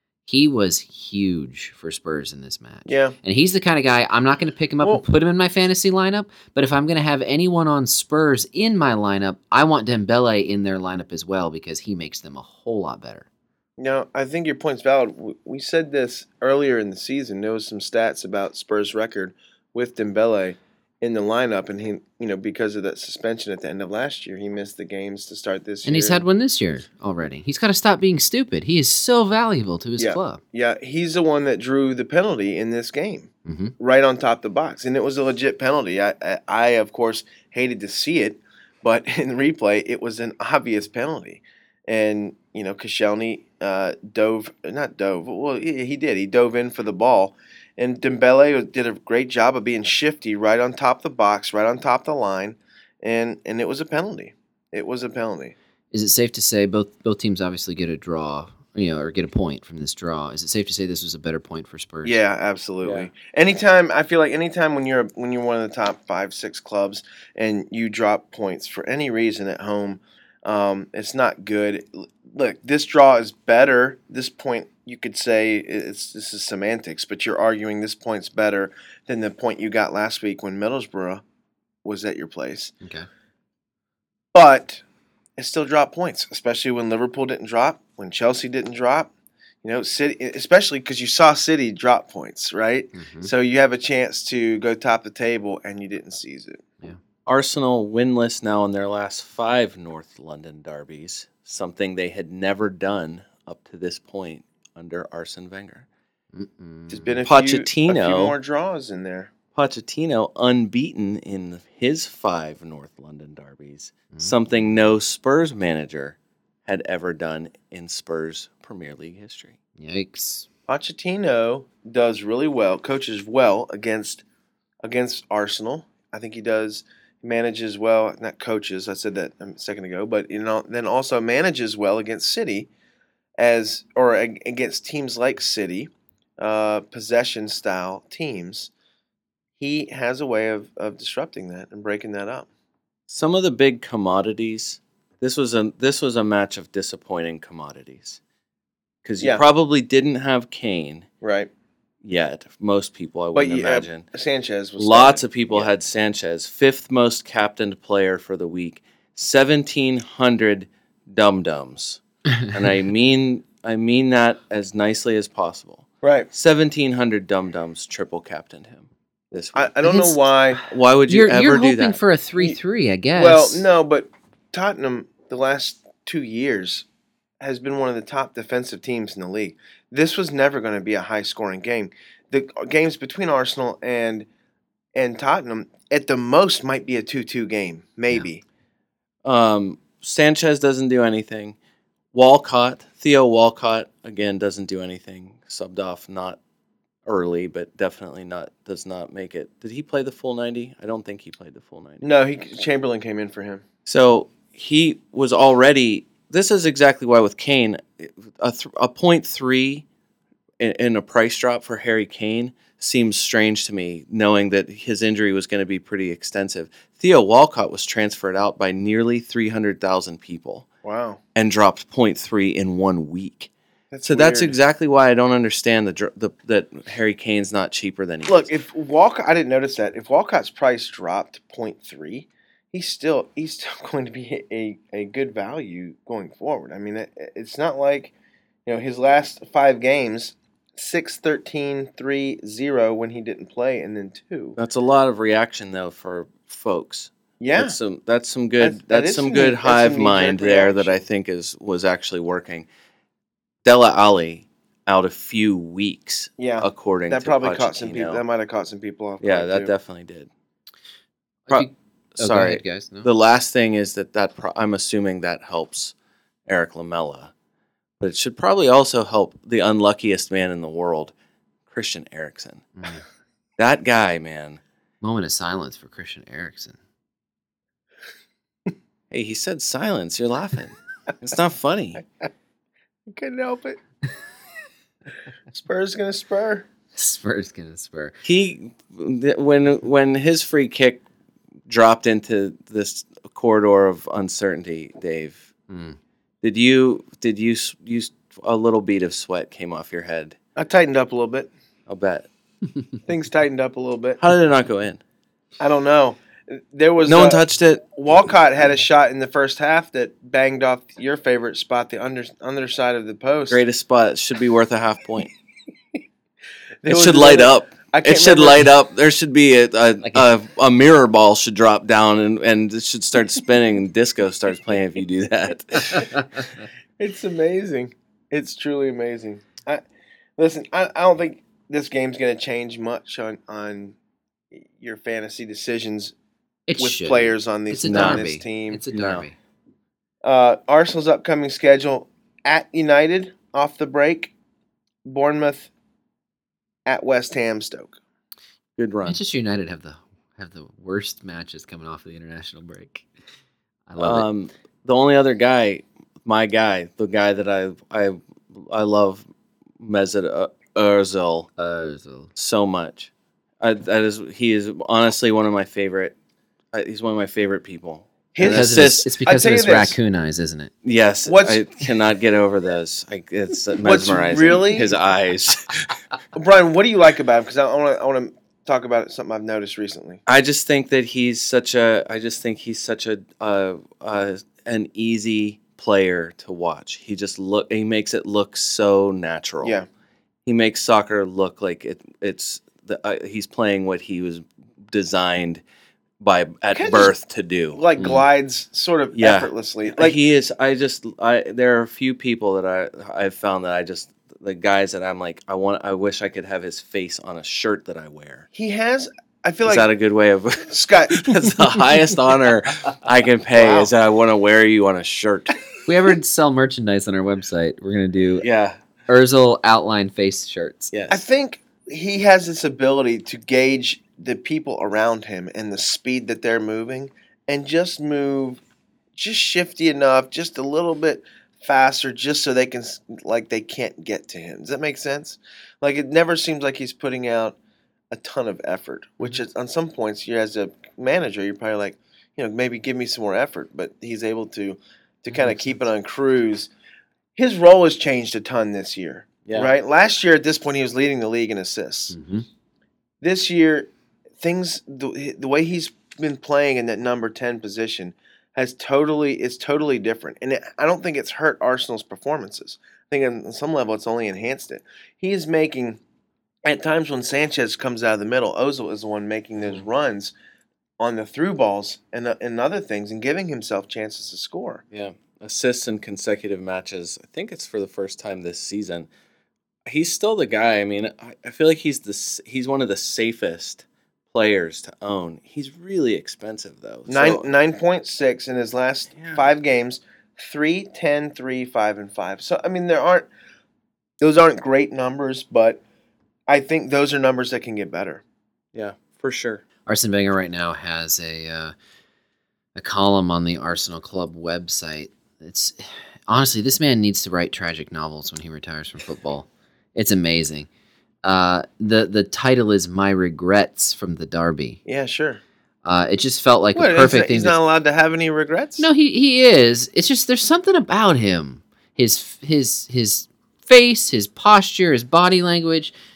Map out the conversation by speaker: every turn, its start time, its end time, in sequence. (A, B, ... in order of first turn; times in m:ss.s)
0:00.2-0:13.3 A
0:02.8-0:03.2 B
0:13.8-0:26.2 B
0:25.8-0:30.4 A
0:30.0-0:55.5 B
0:33.4-0:33.7 A
0:55.9-1:02.2 A
1:02.0-1:21.2 B
1:02.8-1:03.1 C
1:21.8-1:22.7 B
1:22.8-1:23.1 A
1:24.3-1:24.8 B
1:25.4-1:29.1 B
1:29.6-1:36.6 B
1:32.9-1:33.3 A
1:37.2-1:45.8 C
1:46.3-1:47.2 A
1:46.9-1:49.3 B
1:47.2-1:48.3 C
1:49.5-1:59.6 C
1:54.1-1:54.6 A
1:59.8-2:00.5 A
2:00.7-2:04.2 B
2:04.8-2:12.7 B
2:13.4-2:18.7 B
2:19.6-2:22.5 B
2:23.1-2:28.2 C
2:29.0-2:31.1 C
2:31.2-2:31.5 B
2:32.0-2:34.0 C
2:33.3-2:35.7 B
2:34.8-2:49.7 C
2:46.0-2:46.3 B
2:49.5-2:50.6 B
2:49.8-2:50.2 A
2:50.7-2:52.0 C
2:51.1-2:53.7 A
2:53.1-2:56.8 B
2:57.4-3:04.3 B
3:04.9-3:08.4 B
3:09.2-3:11.6 C
3:12.1-3:16.4 C
3:17.0-3:22.0 C
3:22.0-3:23.6 B
3:23.8-3:29.8 C
3:30.6-3:40.6 C
3:40.8-3:41.2 B
3:41.3-3:43.5 C
3:43.9-3:44.5 B
3:44.0-3:48.5 C
3:48.2-3:58.1 B
3:58.6-4:04.6 B
4:04.6-4:12.6 C
4:07.4-4:07.8 B
4:08.6-4:11.0 B
4:13.6-4:18.2 C
4:16.4-4:19.7 B
4:19.2-4:20.3 C
4:21.5-4:23.1 A
4:21.5-4:25.9 C
4:26.5-4:27.3 C
4:28.0-4:31.1 C
4:31.7-4:32.7 C
4:32.8-4:33.0 A
4:33.6-4:34.6 C
4:35.0-4:36.8 A
4:39.1-4:42.0 C
4:43.1-4:43.8 B
4:45.5-4:46.7 B
4:46.9-4:48.1 A
4:48.2-4:51.0 C
4:51.7-4:55.4 C
4:55.7-4:56.0 A
4:56.4-5:00.4 C
5:00.6-5:01.5 B
5:01.9-5:02.3 C
5:03.1-5:04.2 B
5:04.2-5:05.0 C
5:05.6-5:07.4 B
5:07.0-5:07.8 C
5:07.9-5:13.6 B
5:13.5-5:15.3 C
5:16.8-5:18.7 B
5:16.9-5:26.2 C
5:27.0-5:29.8 B
5:30.4-5:34.0 B
5:34.5-5:36.1 B
5:36.7-5:39.3 A
5:36.8-5:38.8 B
5:37.9-5:38.2 C
5:38.9-5:39.2 C
5:40.2-5:44.3 B
5:45.0-5:45.7 B
5:46.8-5:48.0 B
5:48.8-5:49.2 C
5:49.0-5:53.0 A
5:53.9-5:54.2 A
5:54.0-5:59.2 C
5:59.8-6:01.5 C
6:01.6-6:02.3 A
6:02.4-6:06.1 C
6:06.7-6:09.1 C
6:08.3-6:10.0 B
6:08.4-6:10.7 A
6:10.8-6:15.9 C
6:11.2-6:11.6 B
6:13.8-6:15.0 B
6:16.3-6:20.2 B
6:20.3-6:29.8 C
6:29.6-6:29.9 B
6:30.4-6:35.6 C
6:36.2-6:37.8 C
6:36.7-6:37.1 B
6:37.7-6:40.2 B
6:38.0-6:38.2 A
6:39.1-6:48.4 C
6:48.5-6:49.9 B
6:49.6-6:55.6 C
6:50.7-6:51.4 B
6:53.5-6:53.9 B
6:55.8-6:58.4 A
6:58.4-6:58.8 C
6:59.1-7:00.9 A
7:00.9-7:01.2 C
7:01.1-7:08.6 B
7:09.1-7:17.6 B
7:18.1-7:26.7 B
7:25.3-7:25.7 A
7:27.4-7:32.2 B
7:29.4-7:29.7 C
7:32.1-7:32.4 A
7:33.2-7:46.0 B
7:46.6-7:50.3 B
7:51.0-7:54.8 B
7:54.9-7:59.1 C
7:59.8-8:07.4 C
8:07.1-8:13.3 B
8:09.2-8:09.4 C
8:14.2-8:15.8 B
8:16.5-8:18.2 B
8:18.7-8:19.6 C
8:19.8-8:21.7 A
8:22.7-8:30.7 A
8:31.2-8:34.8 A
8:34.8-8:35.4 B
8:35.8-8:37.6 A
8:36.7-8:38.9 B
8:38.8-8:45.9 A